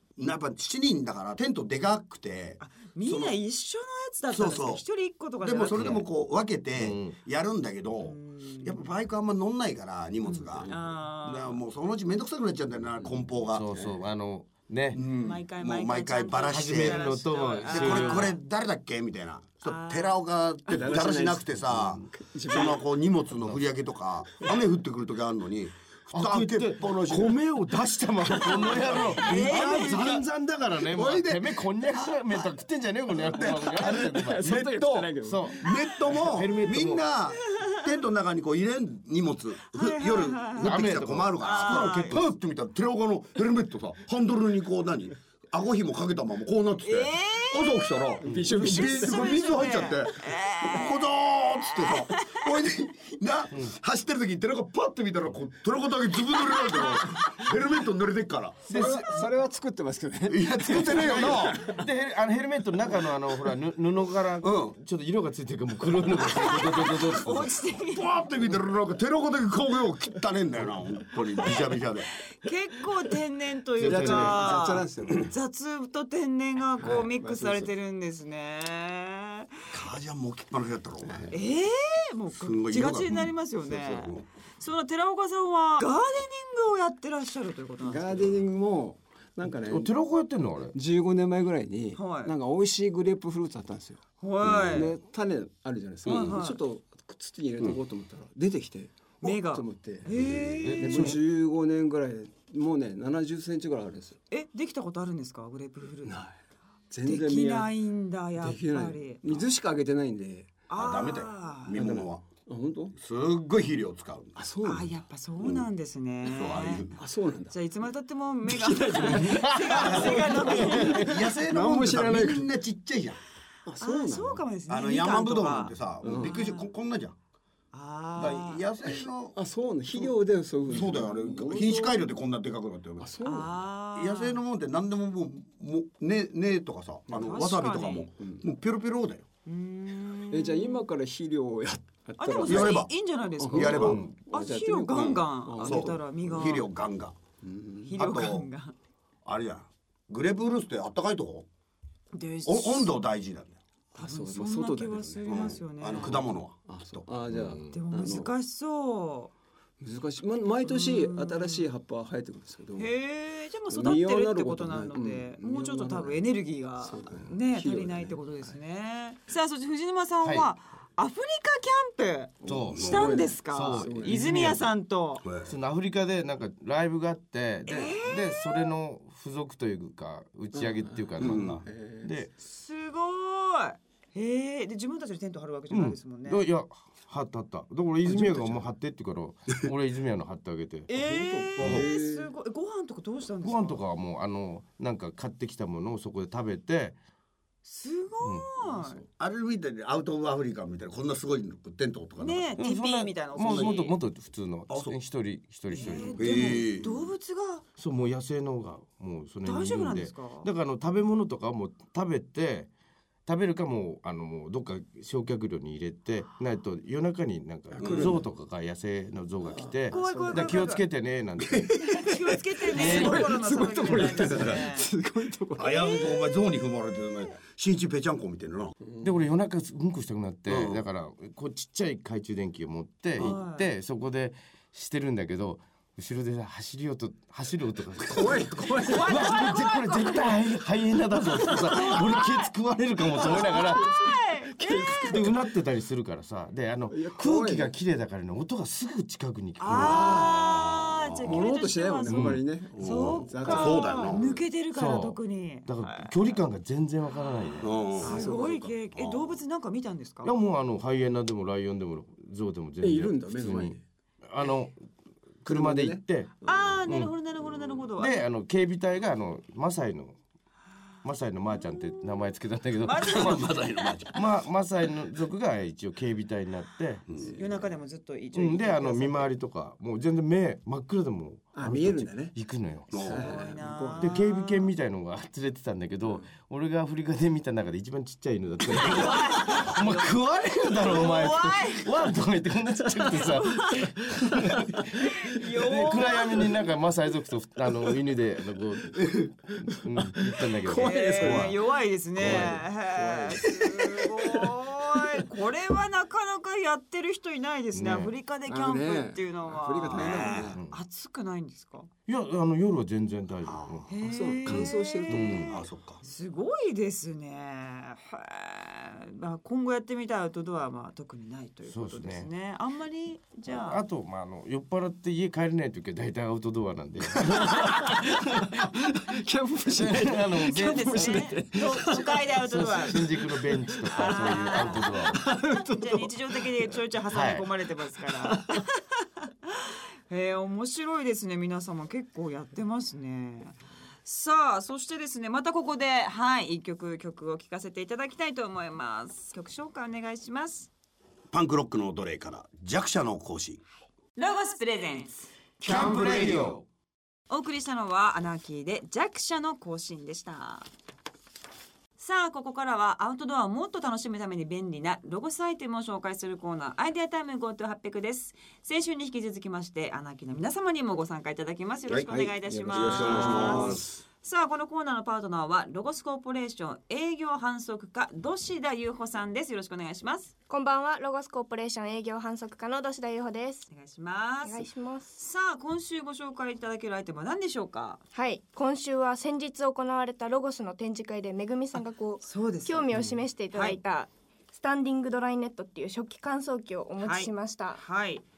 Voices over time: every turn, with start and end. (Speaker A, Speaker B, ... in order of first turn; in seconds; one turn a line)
Speaker A: 0.1-3.4
Speaker B: 2.6-6.0
Speaker A: 4.3-4.8
Speaker A: 5.4-10.7
Speaker C: 5.7-6.0
Speaker C: 6.8-7.2
Speaker B: 8.0-8.9
Speaker B: 10.2-11.6
Speaker A: 11.2-13.7
Speaker C: 13.5-15.0
Speaker A: 14.9-27.4
Speaker B: 15.2-18.4
Speaker C: 16.5-18.3
Speaker B: 19.6-20.2
Speaker D: 20.7-22.8
Speaker C: 26.1-34.6
Speaker A: 28.4-30.3
Speaker B: 29.1-30.1
Speaker A: 30.8-32.5
Speaker D: 33.3-35.7
Speaker A: 33.4-58.8
Speaker C: 35.2-37.1
Speaker B: 37.5-37.8
Speaker B: 39.7-40.7
Speaker C: 40.6-42.3
Speaker B: 41.4-42.2
Speaker B: 46.8-52.4
Speaker D: 48.2-49.3
Speaker C: 48.2-48.5
Speaker B: 56.5-57.4
Speaker D: 58.7-61.9
Speaker C: 58.7-59.3
Speaker A: 60.3-61.7
Speaker C: 60.6-67.5
Speaker A: 64.4-64.8
Speaker B: 66.2-68.2
Speaker A: 67.9-72.1
Speaker B: 72.3-79.7
Speaker C: 73.8-74.6
Speaker D: 73.8-75.3
Speaker D: 76.8-77.7
Speaker A: 79.7-81.3
Speaker B: 81.3-88.4
Speaker A: 82.3-84.2
Speaker D: 87.8-89.9
Speaker C: 89.7-90.7
Speaker D: 90.7-94.0
Speaker B: 91.9-92.3
Speaker B: 94.2-95.0
Speaker D: 94.7-104.2
Speaker A: 96.0-96.4
Speaker B: 96.0-96.6
Speaker B: 99.2-101.1
Speaker C: 100.6-101.2
Speaker B: 104.3-106.2
Speaker D: 106.0-106.3
Speaker D: 106.9-107.7
Speaker B: 107.0-109.5
Speaker D: 108.4-110.7
Speaker B: 110.7-111.8
Speaker A: 110.7-112.2
Speaker D: 111.7-112.9
Speaker A: 112.9-114.4
Speaker D: 114.3-114.9
Speaker B: 114.6-116.9
Speaker A: 116.2-117.0
Speaker D: 117.0-117.6
Speaker B: 117.5-121.2
Speaker D: 118.4-122.5
Speaker C: 119.2-120.1
Speaker A: 119.8-123.2
Speaker D: 123.7-124.4
Speaker B: 123.8-126.7
Speaker A: 124.7-127.1
Speaker D: 126.0-126.4
Speaker B: 127.7-128.6
Speaker A: 128.2-129.4
Speaker D: 128.9-132.0
Speaker A: 130.7-133.3
Speaker D: 133.0-133.5
Speaker B: 133.2-134.4
Speaker A: 133.9-139.2
Speaker B: 137.1-138.1
Speaker B: 139.4-140.8
Speaker D: 140.3-142.8
Speaker B: 142.2-146.7
Speaker A: 142.4-142.9
Speaker D: 143.4-146.0
Speaker A: 143.5-144.0
Speaker C: 143.8-144.1
Speaker A: 144.9-147.2
Speaker D: 147.4-148.0
Speaker B: 147.9-148.7
Speaker A: 147.9-148.4
Speaker A: 149.2-151.5
Speaker B: 152.1-153.0
Speaker A: 152.4-153.6
Speaker D: 153.9-155.6
Speaker B: 153.9-156.2
Speaker A: 155.2-157.1
Speaker D: 156.7-158.3
Speaker B: 157.7-159.3
Speaker A: 157.9-158.2
Speaker D: 159.8-162.9
Speaker B: 160.6-161.7
Speaker B: 162.8-175.2
Speaker D: 163.7-168.6
Speaker C: 170.2-170.5
Speaker D: 172.4-174.5
Speaker C: 172.5-174.7
Speaker A: 172.5-173.0
Speaker A: 175.2-175.5
Speaker C: 175.4-182.3
Speaker B: 177.7-178.7
Speaker D: 180.5-182.1
Speaker A: 181.2-181.6
Speaker B: 182.4-186.4
Speaker C: 185.7-190.9
Speaker A: 188.1-188.6
Speaker B: 190.9-193.8
Speaker D: 190.9-192.3
Speaker C: 191.6-191.9
Speaker C: 193.4-197.0
Speaker B: 197.6-199.0
Speaker C: 198.2-198.5
Speaker A: 199.2-202.5
Speaker B: 202.2-203.9
Speaker C: 202.6-206.7
Speaker A: 203.4-203.8
Speaker A: 204.7-204.9
Speaker B: 205.7-207.6
Speaker A: 206.1-206.9
Speaker C: 207.8-212.7
Speaker B: 209.4-210.5
Speaker C: 213.2-221.9
Speaker D: 217.8-218.2
Speaker A: 217.8-218.2
Speaker D: 219.5-220.7
Speaker B: 219.9-220.8
Speaker B: 221.8-224.9
Speaker C: 222.7-223.4
Speaker D: 222.7-225.9
Speaker C: 223.9-224.5
Speaker A: 225.6-228.7
Speaker B: 225.8-226.1
Speaker C: 229.0-244.1
Speaker A: 230.5-230.8
Speaker B: 233.2-233.7
Speaker D: 238.0-239.5
Speaker B: 238.8-240.4
Speaker B: 241.4-242.5
Speaker D: 241.4-242.0
Speaker D: 243.2-245.4
Speaker B: 243.2-245.3
Speaker C: 245.1-250.2
Speaker D: 246.9-247.7
Speaker B: 249.6-256.4
Speaker A: 249.7-251.4
Speaker D: 249.7-250.3
Speaker D: 251.2-254.4
Speaker C: 252.1-252.4
Speaker A: 252.7-254.2
Speaker C: 254.7-257.8
Speaker B: 257.1-260.3
Speaker A: 257.6-259.4
Speaker D: 258.0-258.7
Speaker C: 260.2-263.8
Speaker D: 262.8-263.8
Speaker C: 264.3-264.8
Speaker C: 265.4-266.3
Speaker D: 265.4-266.8
Speaker B: 266.4-268.2
Speaker C: 266.8-267.1
Speaker C: 268.0-270.2
Speaker C: 271.0-273.5
Speaker B: 272.8-274.0
Speaker A: 273.1-274.2
Speaker C: 274.1-277.3
Speaker B: 277.2-279.3
Speaker C: 278.3-283.5
Speaker D: 281.5-282.3
Speaker A: 282.9-283.4
Speaker D: 283.0-284.2
Speaker B: 283.0-284.7
Speaker C: 284.0-301.6
Speaker B: 288.8-290.0
Speaker B: 290.8-292.1
Speaker D: 292.9-293.2
Speaker B: 293.4-293.9
Speaker D: 294.2-294.8
Speaker B: 295.0-296.5
Speaker D: 298.9-301.6
Speaker B: 300.7-311.9
Speaker D: 302.2-305.3
Speaker C: 302.2-302.6
Speaker C: 307.7-308.1
Speaker D: 308.5-310.6
Speaker A: 309.9-310.6
Speaker C: 310.5-310.8
Speaker C: 312.1-313.9
Speaker A: 313.4-313.8
Speaker B: 313.9-323.8
Speaker D: 314.0-315.5
Speaker C: 314.4-315.5
Speaker A: 315.4-316.0
Speaker C: 321.7-322.3
Speaker C: 323.5-328.7
Speaker D: 327.2-336.7
Speaker C: 329.8-331.4
Speaker B: 330.4-333.1
Speaker C: 332.4-335.2
Speaker B: 333.9-350.7
Speaker C: 337.1-337.4
Speaker D: 338.1-338.6
Speaker A: 351.3-353.6
Speaker B: 354.1-355.3
Speaker C: 355.6-356.6
Speaker A: 355.6-356.4
Speaker B: 357.3-360.6
Speaker B: 362.0-380.3
Speaker A: 371.9-374.0
Speaker D: 372.1-373.9
Speaker E: 380.5-383.7
Speaker B: 383.7-388.0
Speaker E: 384.4-385.1
Speaker E: 388.1-397.8
Speaker B: 392.2-392.9
Speaker D: 392.9-393.2
Speaker B: 393.5-393.8
Speaker B: 397.0-398.2